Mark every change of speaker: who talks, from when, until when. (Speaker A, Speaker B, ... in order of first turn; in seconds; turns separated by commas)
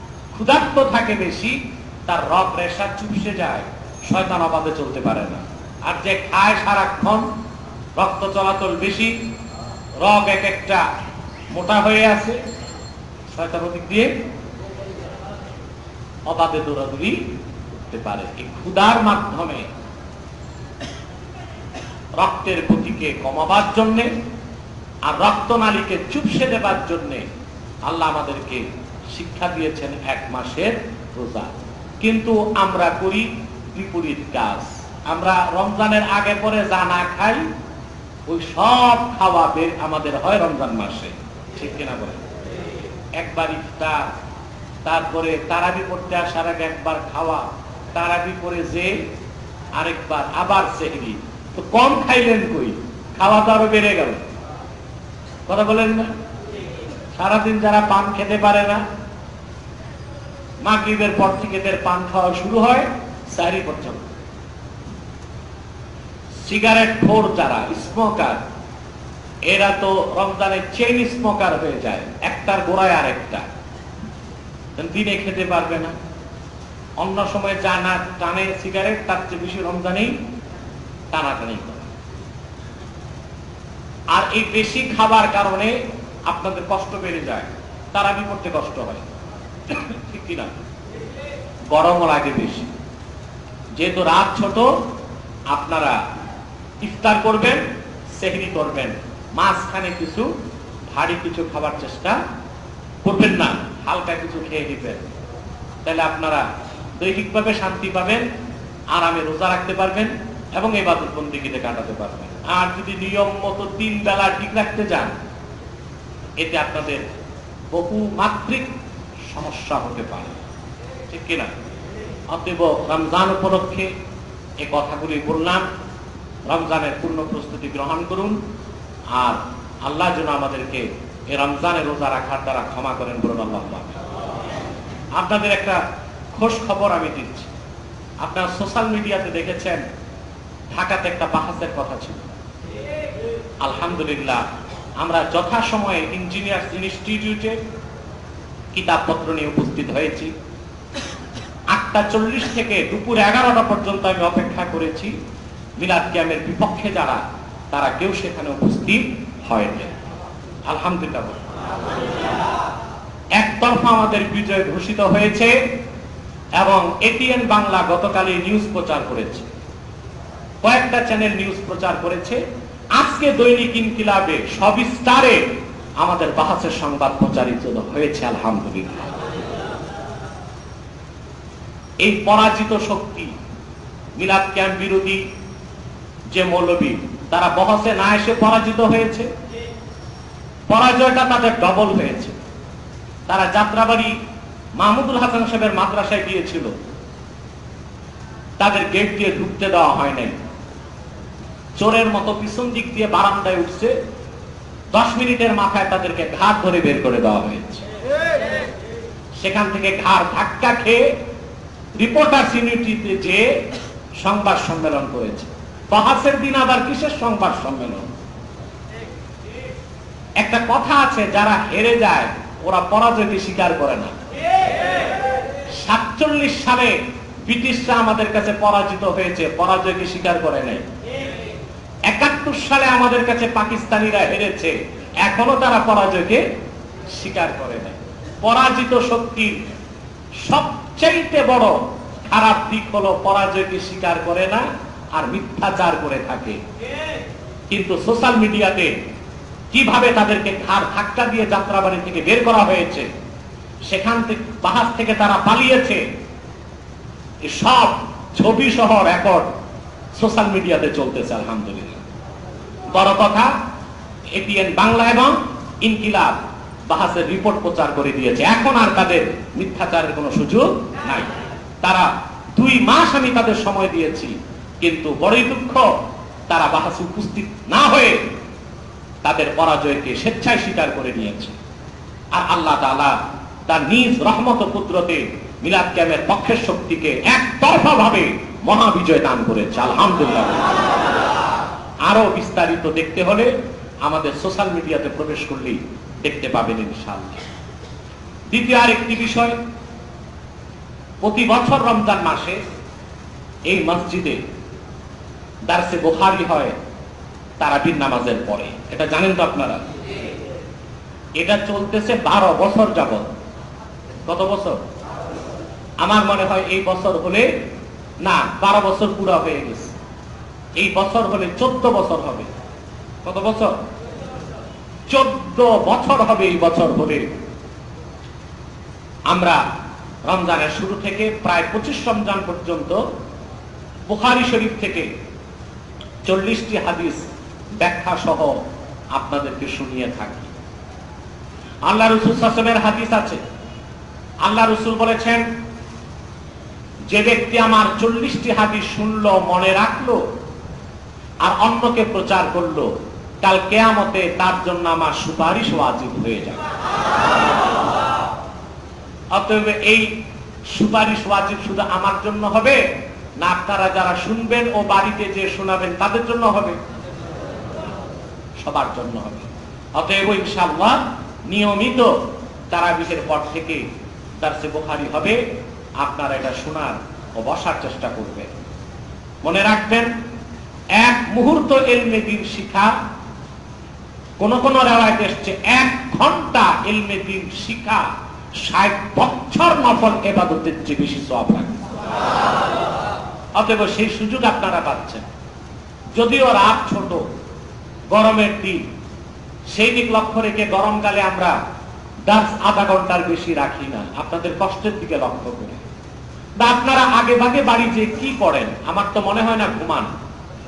Speaker A: 0.3-7.3, Speaker A: 8.0-9.2, Speaker A: 10.0-10.8, Speaker A: 11.5-12.4, Speaker A: 13.3-14.1, Speaker A: 16.3-17.2, Speaker A: 17.7-19.7, Speaker A: 22.2-24.1, Speaker A: 25.1-27.2, Speaker A: 27.9-37.4, Speaker A: 38.3-42.2, Speaker A: 43.2-44.1, Speaker A: 44.8-49.0, Speaker A: 49.7-54.2, Speaker A: 55.5-56.1, Speaker A: 57.1-58.8, Speaker A: 60.6-64.1, Speaker A: 66.4-68.4, Speaker A: 69.5-73.4, Speaker A: 74.8-75.9, Speaker A: 77.0-80.2, Speaker A: 81.1-81.9, Speaker A: 84.1-89.1, Speaker A: 89.7-90.5, Speaker A: 91.7-92.7, Speaker A: 93.8-94.7, Speaker A: 95.5-96.0, Speaker A: 96.8-100.3, Speaker A: 100.9-102.2, Speaker A: 103.0-105.1, Speaker A: 105.8-106.4, Speaker A: 107.0-108.2, Speaker A: 108.9-115.1, Speaker A: 116.4-117.0, Speaker A: 117.7-118.7, Speaker A: 119.3-120.4, Speaker A: 121.1-121.5, Speaker A: 122.3-123.9, Speaker A: 124.6-125.6, Speaker A: 126.5-128.3, Speaker A: 129.1-134.0, Speaker A: 135.1-135.8, Speaker A: 136.3-137.5, Speaker A: 138.2-139.8, Speaker A: 140.7-142.3, Speaker A: 143.6-144.4, Speaker A: 145.0-147.6, Speaker A: 148.7-150.3, Speaker A: 151.7-155.1, Speaker A: 155.8-159.9, Speaker A: 160.7-161.4, Speaker A: 163.3-165.5, Speaker A: 166.6-169.5, Speaker A: 170.6-172.4, Speaker A: 172.9-175.4, Speaker A: 176.0-179.2, Speaker A: 182.0-183.3, Speaker A: 184.2-185.2, Speaker A: 186.3-189.3, Speaker A: 190.7-192.3, Speaker A: 193.3-194.1, Speaker A: 194.8-196.7, Speaker A: 198.6-200.3, Speaker A: 201.8-203.9, Speaker A: 204.9-207.8, Speaker A: 209.4-211.1, Speaker A: 212.0-213.5, Speaker A: 214.2-218.1, Speaker A: 220.4-224.1, Speaker A: 225.8-230.8, Speaker A: 232.1-234.7, Speaker A: 235.2-236.4, Speaker A: 237.1-239.6, Speaker A: 240.4-246.6, Speaker A: 247.7-248.9, Speaker A: 249.7-253.1, Speaker A: 253.9-256.0, Speaker A: 257.4-259.5, Speaker A: 260.1-262.0, Speaker A: 262.9-263.5, Speaker A: 264.3-271.3, Speaker A: 271.8-275.9, Speaker A: 276.5-278.2, Speaker A: 279.2-281.5, Speaker A: 282.3-283.1, Speaker A: 283.7-290.8, Speaker A: 292.0-293.5, Speaker A: 294.0-297.4, Speaker A: 298.5-299.6, Speaker A: 301.2-302.6, Speaker A: 303.7-304.4, Speaker A: 305.7-306.7, Speaker A: 307.6-309.8, Speaker A: 311.4-313.2, Speaker A: 314.2-314.8, Speaker A: 316.0-317.5, Speaker A: 318.2-319.9, Speaker A: 320.8-322.5, Speaker A: 323.2-323.7, Speaker A: 325.1-327.3, Speaker A: 329.3-329.6, Speaker A: 330.2-333.0, Speaker A: 334.1-335.1, Speaker A: 336.2-337.2, Speaker A: 337.8-338.6, Speaker A: 339.1-340.5, Speaker A: 341.8-343.4, Speaker A: 344.4-345.4, Speaker A: 347.1-350.2, Speaker A: 351.4-356.6, Speaker A: 359.3-360.1, Speaker A: 360.7-362.8, Speaker A: 363.4-366.8, Speaker A: 368.6-369.4, Speaker A: 370.0-372.1, Speaker A: 372.7-373.8, Speaker A: 374.4-375.4, Speaker A: 376.0-378.5, Speaker A: 379.4-380.1, Speaker A: 380.9-382.9, Speaker A: 384.4-388.1, Speaker A: 388.6-391.8, Speaker A: 393.6-395.2, Speaker A: 396.1-397.2, Speaker A: 398.1-398.8, Speaker A: 399.7-401.6, Speaker A: 402.2-405.8, Speaker A: 406.6-410.1